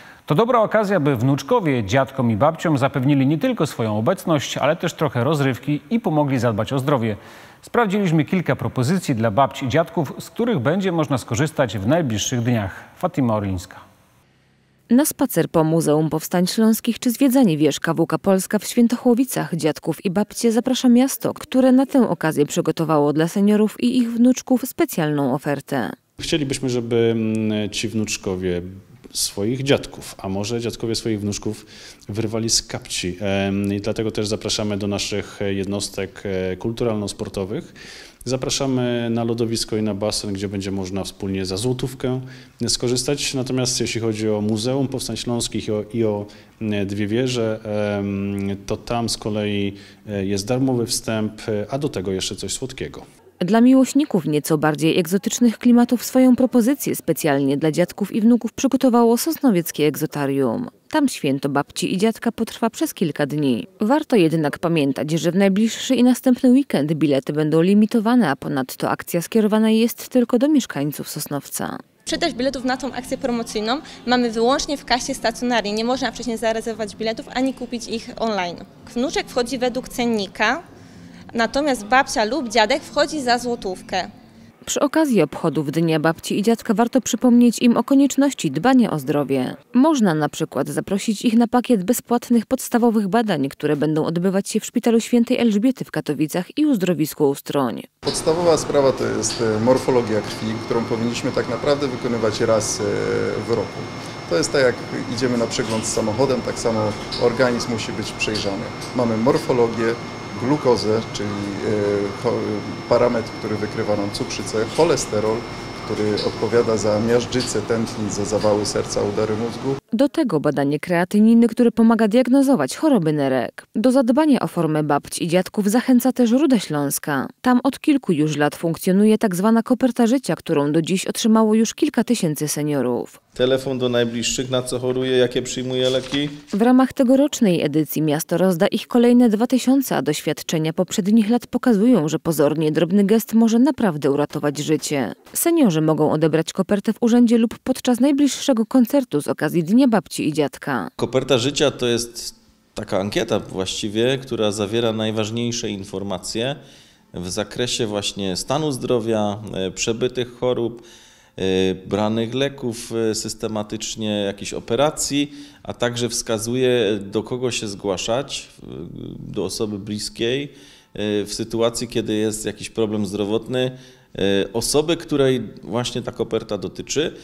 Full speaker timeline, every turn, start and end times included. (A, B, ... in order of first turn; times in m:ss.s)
0:00.3-0:13.8 A
0:14.9-0:26.0 B
0:26.2-0:53.0 C
0:53.4-1:11.8 B
1:12.1-1:20.6 D
1:21.3-1:24.1 D
1:24.7-1:37.9 B
1:38.0-1:59.8 E
1:59.9-2:13.2 B
2:13.4-2:16.4 F
2:16.5-2:30.9 B
2:31.0-2:36.6 F
2:37.2-2:40.8 F
2:41.4-2:57.1 F